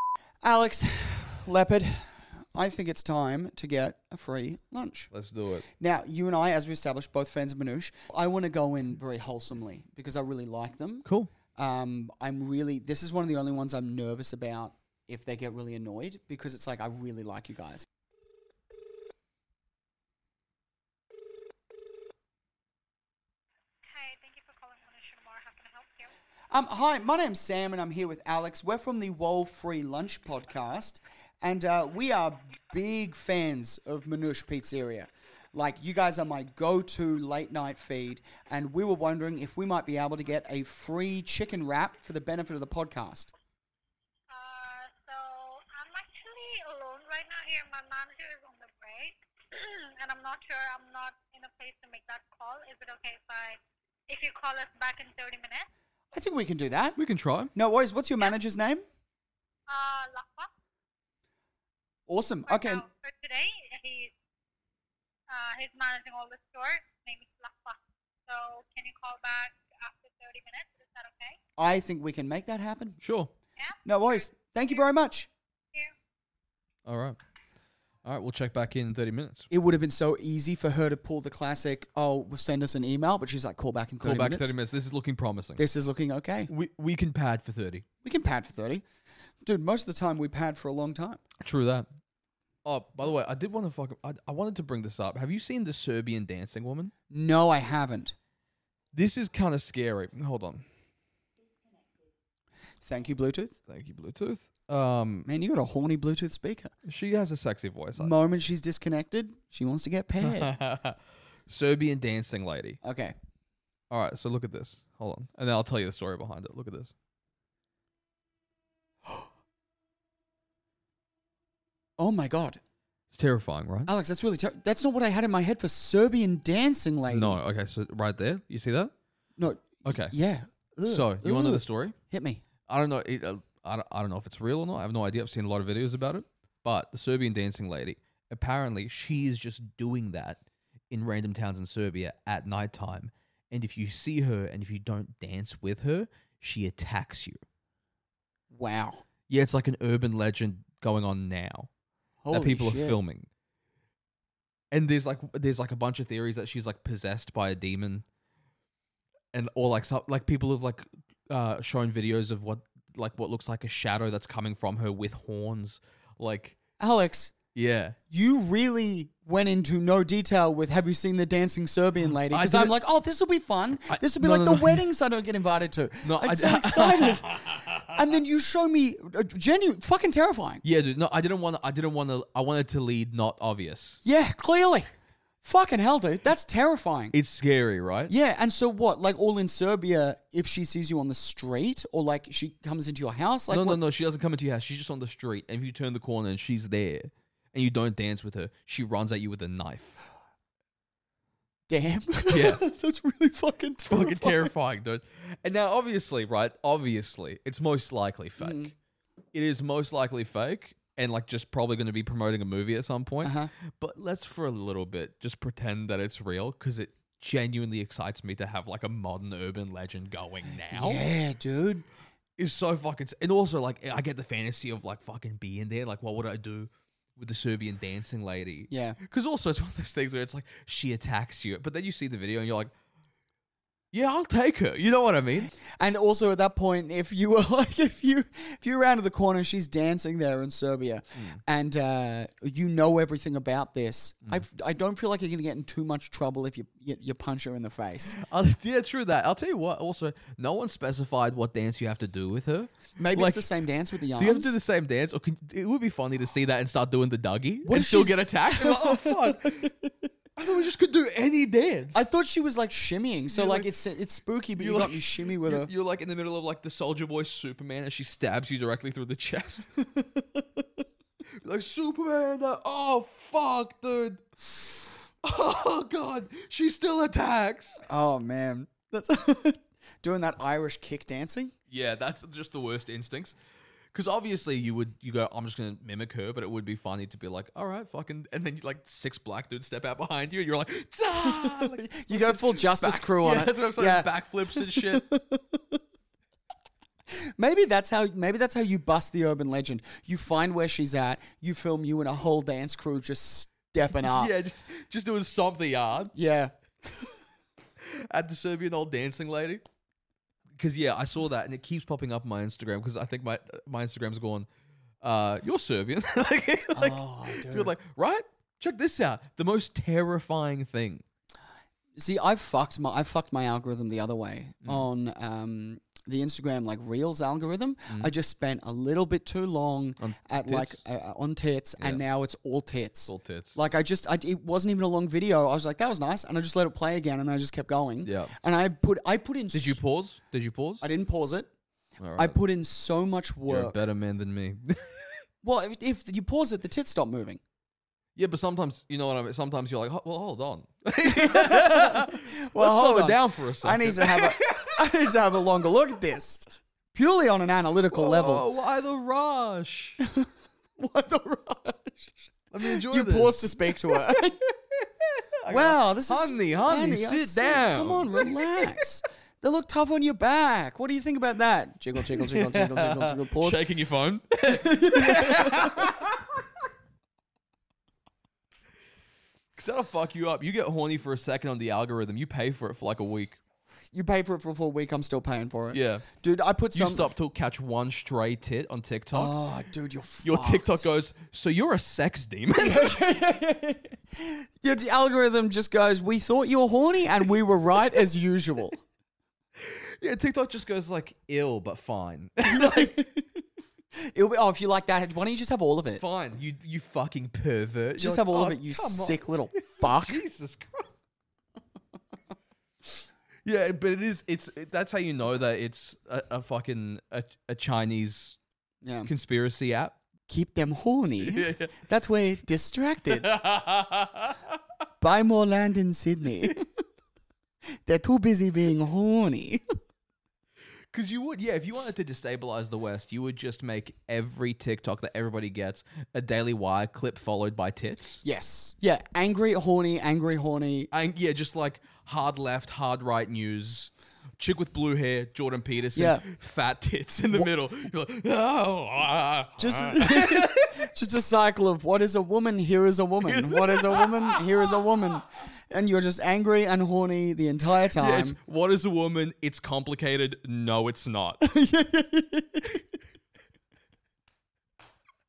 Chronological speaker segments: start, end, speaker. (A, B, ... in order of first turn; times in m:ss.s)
0:00.4-0:05.1 A
0:05.1-0:05.7 B
0:05.8-0:17.9 A
0:11.0-0:11.3 B
0:23.8-0:26.1 C
0:26.5-0:43.3 A
0:44.3-0:55.7 C
0:56.1-0:57.0 A
0:57.0-0:57.5 B
0:57.6-0:58.8 A
0:59.7-1:00.5 C
1:02.1-1:02.8 A
1:02.5-1:04.1 C
1:05.3-1:11.4 C
1:11.6-1:13.0 A
1:13.0-1:13.3 B
1:13.9-1:15.3 A
1:16.9-1:17.2 B
1:18.0-1:19.5 B
1:19.5-1:24.5 A
1:24.0-1:25.6 B
1:25.6-1:26.5 A
1:26.5-1:27.8 B
1:28.0-1:28.8 A
1:29.4-1:31.2 A
1:31.4-1:31.9 B
1:32.6-1:36.9 B
1:37.1-1:38.1 A
1:38.9-1:40.6 B
1:42.8-1:43.6 A
1:43.7-1:45.3 B
1:45.3-1:46.7 A
1:46.8-1:48.1 B
1:48.0-1:50.5 A
1:50.2-1:52.8 B
1:52.8-1:53.2 A
1:53.9-1:56.9 B
2:02.0-2:02.6 A
2:03.1-2:03.9 B
2:03.9-2:07.4 A
2:07.1-2:08.9 B
2:09.4-2:12.4 A
2:09.9-2:10.1 B
2:10.9-2:12.0 B
2:12.7-2:27.4 B
2:28.5-2:29.0 A
2:29.3-2:31.7 B
2:32.2-2:33.0 A
2:32.3-2:33.3 B
2:34.7-2:38.0 B
2:39.3-2:46.6 B
2:46.8-2:47.3 A
2:47.6-2:48.0 B
2:48.1-3:00.6 A
2:52.1-2:52.8 B
2:53.9-2:54.8 B
2:56.0-2:58.0 B
3:00.6-3:04.0 B
3:04.0-3:04.9 A
3:05.4-3:07.2 A
3:07.1-3:08.1 B
3:08.1-3:13.8 A
3:13.5-3:20.0 B
3:21.7-3:24.5 A
3:22.3-3:22.6 B
3:23.8-3:28.7 B
3:28.4-3:28.7 A
3:29.3-3:41.1 B
3:33.2-3:33.5 A
3:40.7-3:41.9 A
3:42.4-3:52.7 B
3:48.7-3:49.0 A
3:53.9-3:55.5 B
3:55.8-4:08.2 A
4:08.2-4:13.5 B
4:13.0-4:14.6 A
4:14.1-4:19.7 B
4:17.7-4:19.9 A
4:20.4-4:22.1 B
4:21.9-4:25.7 A
4:23.3-4:23.8 B
4:24.6-4:29.7 B
4:30.0-4:30.6 A
4:31.4-4:37.8 B
4:37.8-4:41.5 A
4:41.7-4:43.4 B
4:43.9-4:55.1 B
4:51.2-4:55.8 A
4:57.1-5:04.3 A
5:04.0-5:06.1 B
5:06.1-5:07.1 A
5:07.8-5:09.6 B
5:10.5-5:14.5 B
5:15.0-5:21.0 B
5:16.7-5:17.8 A
5:22.0-5:39.8 A
5:30.0-5:30.8 B
5:33.1-5:33.6 B
5:38.0-5:38.3 B
5:39.5-5:40.8 B
5:40.8-5:41.5 A
5:42.0-5:42.4 B
5:42.2-5:43.8 A
5:43.5-5:45.2 B
5:45.4-5:47.4 A
5:48.2-5:54.9 B
5:51.0-5:58.5 A
5:57.9-6:00.0 B
6:00.0-6:04.4 A
6:02.5-6:08.9 B
6:05.5-6:13.6 A
6:12.1-6:16.4 B
6:14.4-6:15.9 A
6:19.6-6:23.4 B
6:23.9-6:27.1 A
6:25.7-6:26.0 B
6:26.7-6:29.4 B
6:29.1-6:30.8 A
6:30.2-6:33.0 B
6:32.6-6:38.8 A
6:39.6-6:43.1 B
6:42.4-6:43.4 A
6:44.0-6:46.0 A
6:46.0-6:50.9 B
6:48.0-6:50.2 A
6:53.4-6:58.4 B
6:58.8-6:59.1 A
6:59.0-7:00.0 B
7:00.3-7:03.4 A
7:01.2-7:01.7 B
7:03.1-7:04.6 B
7:05.0-7:06.7 A
7:07.9-7:09.6 A
7:10.9-7:18.2 B
7:18.2-7:20.9 A
7:20.9-7:30.9 B
7:26.0-7:26.2 A
7:29.6-7:38.4 A
7:33.2-7:34.8 B
7:38.0-7:41.4 B
7:41.4-7:42.8 A